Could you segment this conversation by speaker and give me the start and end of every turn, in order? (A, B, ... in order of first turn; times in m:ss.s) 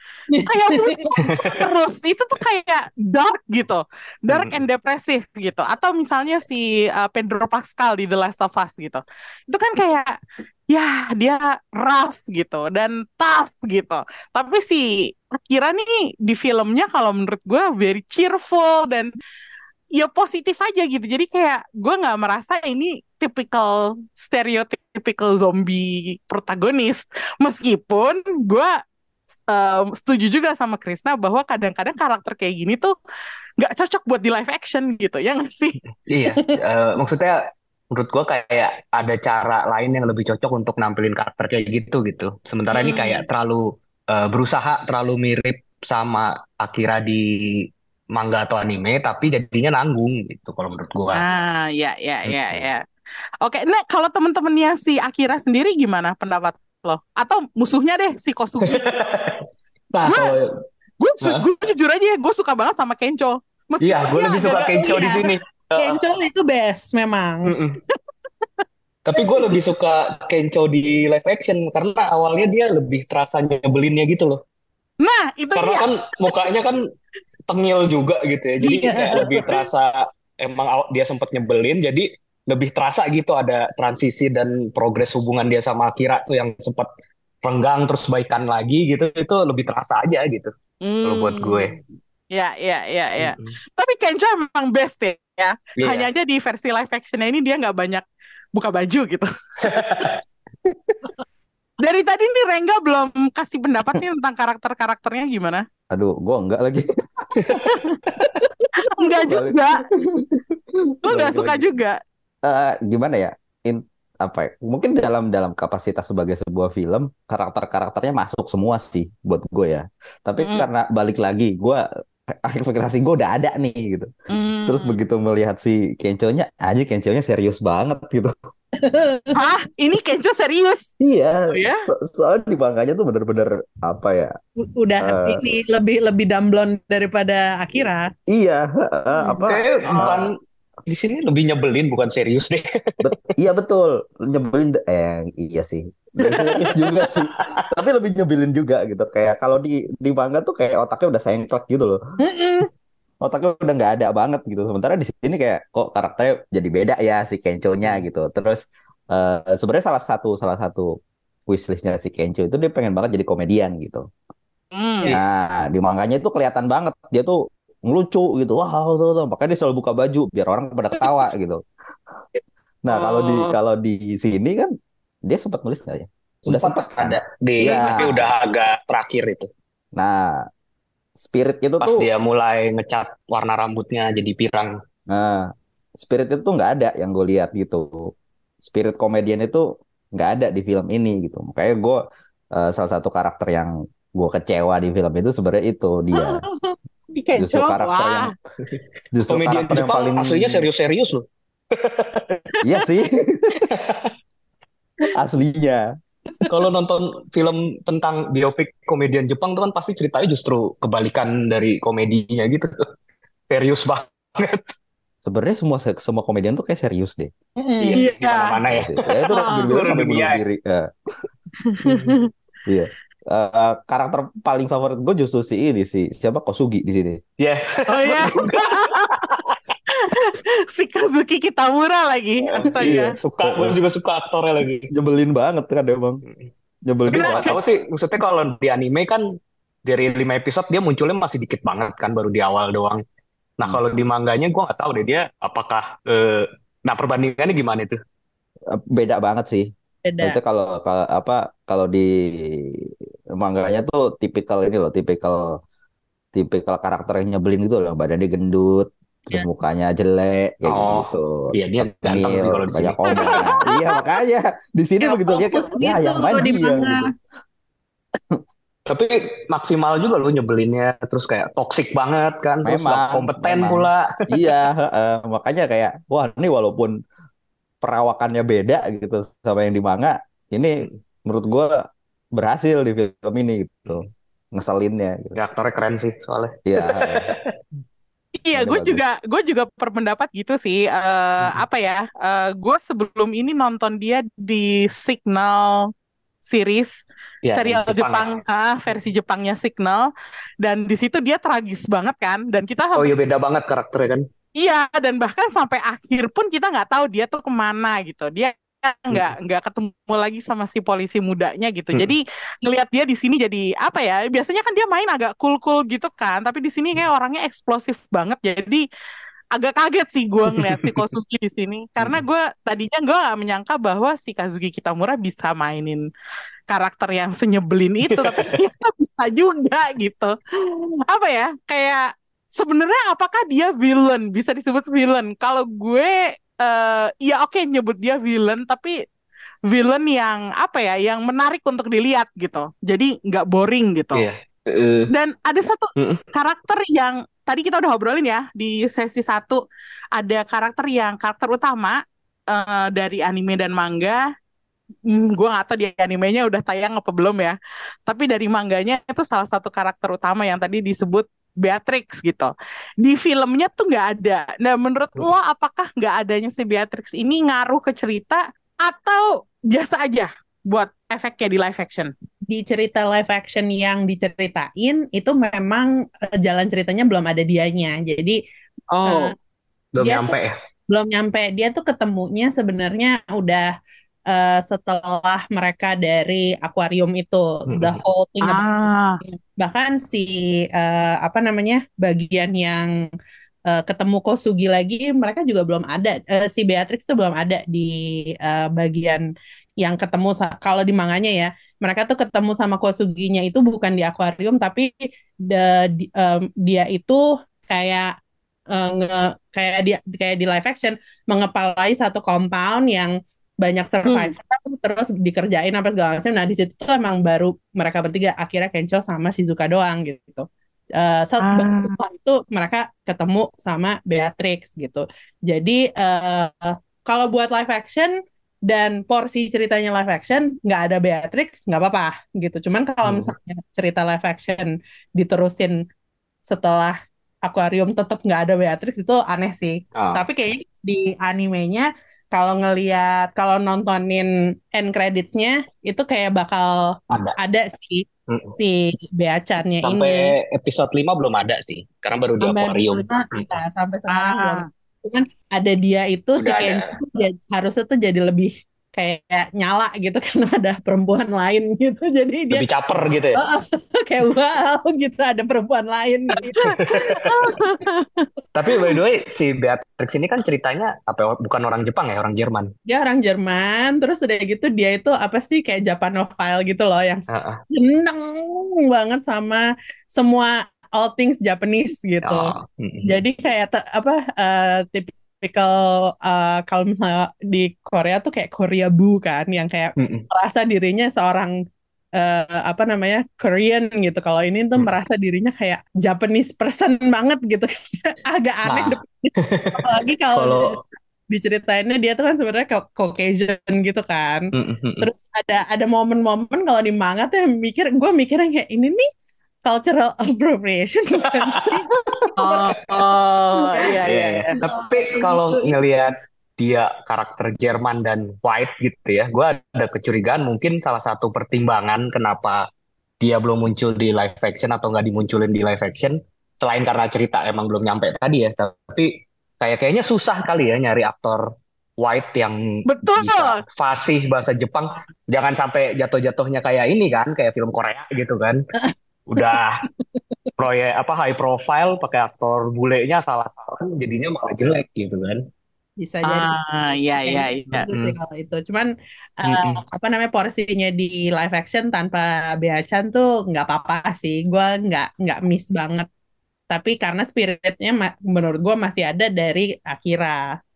0:00.3-0:01.0 A
0:00.4-0:10.1 B
0:01.2-0:01.6 C
0:04.3-0:04.6 C
0:10.7-0:19.1 B
0:19.9-0:28.7 B
0:29.5-0:32.9 B
0:33.6-0:35.8 B
0:36.1-0:51.2 C
0:42.7-0:43.2 B
0:51.1-0:52.8 B
0:52.2-0:52.7 C
0:53.4-0:58.8 B
0:58.6-1:00.5 C
1:00.0-1:00.4 B
1:01.0-1:05.1 B
1:03.8-1:06.0 C
1:04.8-1:05.2 A
1:05.8-1:07.5 A
1:07.4-1:07.8 C
1:09.0-1:14.4 C
1:15.0-1:15.9 B
1:15.5-1:16.8 C
1:17.5-1:26.9 C
1:18.6-1:19.3 A
1:19.1-1:19.6 B
1:27.4-1:30.5 C
1:30.8-1:31.8 B
1:31.0-1:31.7 C
1:32.3-1:38.0 B
1:33.2-1:33.6 C
1:35.8-1:36.1 C
1:38.6-1:39.3 B
1:39.6-1:40.2 C
1:41.8-1:45.6 B
1:45.9-1:47.7 D
1:47.4-1:47.7 C
1:47.6-1:48.0 B
1:49.0-1:49.8 B
1:49.2-1:50.4 D
1:51.0-1:51.6 D
1:51.0-1:52.0 B
1:52.4-2:01.8 D
2:02.4-2:04.1 D
2:04.3-2:05.0 B
2:04.7-2:08.3 D
2:08.8-2:09.3 A
2:09.3-2:10.9 B
2:11.0-2:14.3 D
2:11.5-2:11.8 B
2:14.6-2:18.0 A
2:15.0-2:15.4 D
2:18.3-2:20.3 D
2:19.4-2:20.3 C
2:19.9-2:20.1 B
2:20.9-2:23.1 C
2:23.0-2:32.0 D
2:26.2-2:27.6 C
2:32.2-2:32.7 A
2:33.2-2:40.9 D
2:41.5-2:44.0 D
2:44.7-2:45.1 B
2:45.1-2:51.6 D
2:52.8-2:54.7 D
2:52.9-2:53.5 B
2:55.3-2:58.3 D
2:56.4-2:59.5 C
2:57.6-2:58.1 B
3:00.0-3:00.4 D
3:01.2-3:02.0 D
3:01.8-3:04.7 C
3:05.1-3:05.5 D
3:06.0-3:08.0 D
3:08.6-3:09.6 D
3:10.2-3:12.0 D
3:12.5-3:16.4 D
3:16.2-3:16.7 A
3:17.2-3:18.3 B
3:17.3-3:18.3 D
3:18.7-3:22.4 C
3:19.1-3:20.6 D
3:22.6-3:23.6 D
3:23.6-3:24.1 C
3:25.1-3:25.8 D
3:26.5-3:32.7 C
3:33.5-3:34.7 C
3:35.2-3:37.3 D
3:37.6-3:38.1 A
3:37.8-3:40.4 C
3:37.9-3:38.6 B
3:38.7-3:40.9 D
3:39.3-3:39.8 B
3:41.7-3:42.2 B
3:41.9-3:42.1 C
3:42.7-3:47.2 D
3:47.4-3:49.6 C
3:47.9-3:49.2 B
3:50.0-3:53.1 B
3:52.4-3:54.9 C
3:52.6-3:53.7 D
3:54.9-3:56.2 D
3:56.9-3:57.5 D
3:57.1-3:59.2 C
3:57.1-3:57.6 B
3:59.8-4:03.0 C
4:03.6-4:08.0 C
4:08.7-4:09.7 D
4:10.0-4:10.4 A
4:10.2-4:12.9 D
4:13.4-4:15.4 D
4:16.3-4:21.5 D
4:20.7-4:23.4 C
4:22.0-4:27.1 D
4:25.2-4:27.1 A
4:28.9-4:34.5 C
4:32.6-4:36.9 D
4:37.8-4:41.7 D
4:42.4-4:45.4 D
4:45.3-4:47.4 C
4:46.7-4:47.3 D
4:48.4-4:55.8 B
4:48.5-4:49.0 D
4:56.4-4:56.9 B
4:57.4-4:58.2 C
4:57.5-5:00.1 B
5:00.6-5:03.1 B
5:03.0-5:04.2 C
5:04.6-5:18.8 B
5:19.6-5:26.0 B
5:20.5-5:21.0 C
5:26.7-5:32.0 B
5:28.1-5:28.6 C
5:32.6-5:38.9 B
5:39.7-5:44.3 B
5:44.1-5:45.1 C
5:45.1-5:49.6 B
5:46.0-5:46.2 C
5:50.2-5:52.0 B
5:52.5-5:54.2 B
5:55.1-5:57.5 B
5:58.1-6:12.1 B
6:12.5-6:18.4 A
6:18.9-6:19.3 B
6:19.0-6:19.3 A
6:19.9-6:20.5 C
6:20.0-6:20.3 A
6:20.9-6:23.7 A
6:24.3-6:32.9 A
6:27.7-6:28.0 C
6:28.4-6:29.2 B
6:33.7-6:37.9 A
6:38.4-6:39.2 A
6:39.8-6:44.9 A
6:45.5-6:48.1 A
6:48.7-7:00.4 A
6:54.0-6:54.3 B
7:01.0-7:08.1 A
7:01.4-7:01.9 B
7:08.7-7:15.8 A
7:13.0-7:13.3 C
7:16.4-7:28.0 A
7:19.9-7:20.2 C
7:27.1-7:27.4 C
7:28.3-7:28.5 C
7:28.6-7:30.3 A
7:29.8-7:33.6 C
7:32.4-7:42.6 A
7:34.1-7:34.6 B
7:36.4-7:36.9 C
7:42.5-7:43.4 C
7:43.3-7:46.5 A
7:46.4-7:48.1 B
7:46.6-7:47.3 C
7:48.5-7:52.7 C
7:52.9-8:02.5 A
7:57.3-7:57.6 C
8:02.2-8:03.2 C
8:03.0-8:11.5 A
8:10.0-8:10.2 C
8:12.2-8:20.8 A
8:18.6-8:20.8 C
8:21.3-8:24.4 A
8:24.5-8:25.1 C
8:25.0-8:29.1 A
8:29.6-8:32.8 A
8:31.2-8:31.8 C
8:32.4-8:34.5 B
8:33.6-8:34.0 A
8:34.0-8:42.7 C
8:34.6-8:35.7 A
8:43.2-8:51.4 C
8:52.0-8:58.6 C
8:52.9-8:53.6 B
8:58.8-8:59.5 A
8:59.3-8:59.8 C
9:00.6-9:05.4 C
9:06.0-9:06.5 A
9:06.2-9:07.9 B
9:07.1-9:08.9 A
9:07.7-9:08.2 C
9:09.4-9:16.0 A
9:09.4-9:09.8 C
9:16.7-9:20.4 A